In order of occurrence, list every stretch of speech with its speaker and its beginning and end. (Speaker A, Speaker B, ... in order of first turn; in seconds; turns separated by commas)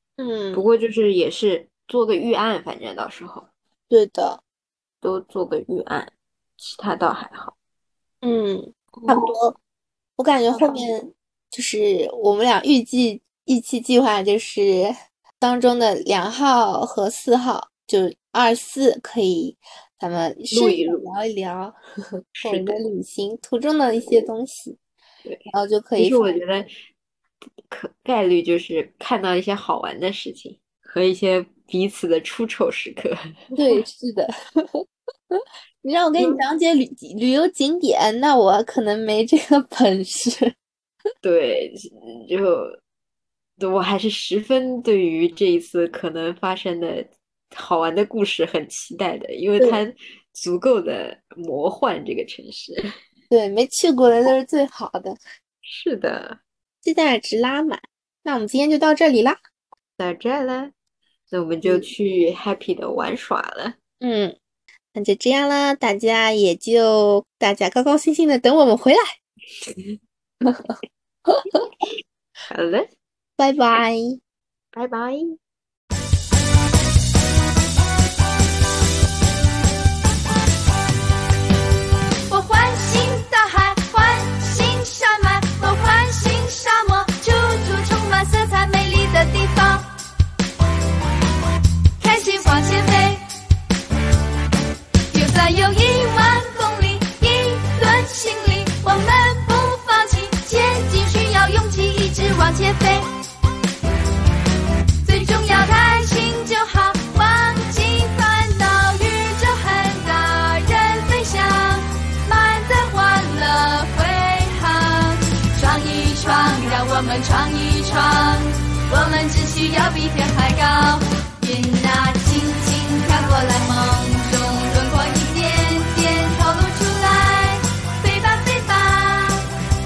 Speaker A: 0.2-0.7, Speaker B: 0.5-3.5, Speaker A: 3.9-4.4, Speaker B: 5.0-7.5, Speaker A: 8.2-9.6, Speaker B: 9.0-9.3, Speaker A: 10.2-21.7, Speaker B: 10.5-10.8, Speaker B: 20.5-21.1, Speaker B: 22.4-22.8, Speaker A: 22.4-24.8, Speaker A: 25.5-26.4, Speaker B: 26.0-26.7, Speaker B: 27.7-33.8, Speaker A: 33.5-40.5, Speaker B: 41.2-42.8, Speaker B: 43.6-52.8, Speaker A: 53.3-55.2, Speaker B: 55.6-56.4, Speaker A: 56.8-59.4, Speaker B: 60.0-60.7, Speaker B: 61.3-63.8, Speaker A: 61.6-61.9, Speaker A: 64.0-64.3, Speaker A: 64.9-69.1, Speaker A: 70.4-70.7, Speaker A: 71.3-71.6, Speaker B: 72.5-72.9, Speaker A: 73.4-74.2, Speaker B: 74.7-75.3, Speaker C: 82.3-89.9, Speaker C: 92.0-93.2, Speaker C: 95.1-103.1, Speaker C: 105.0-129.4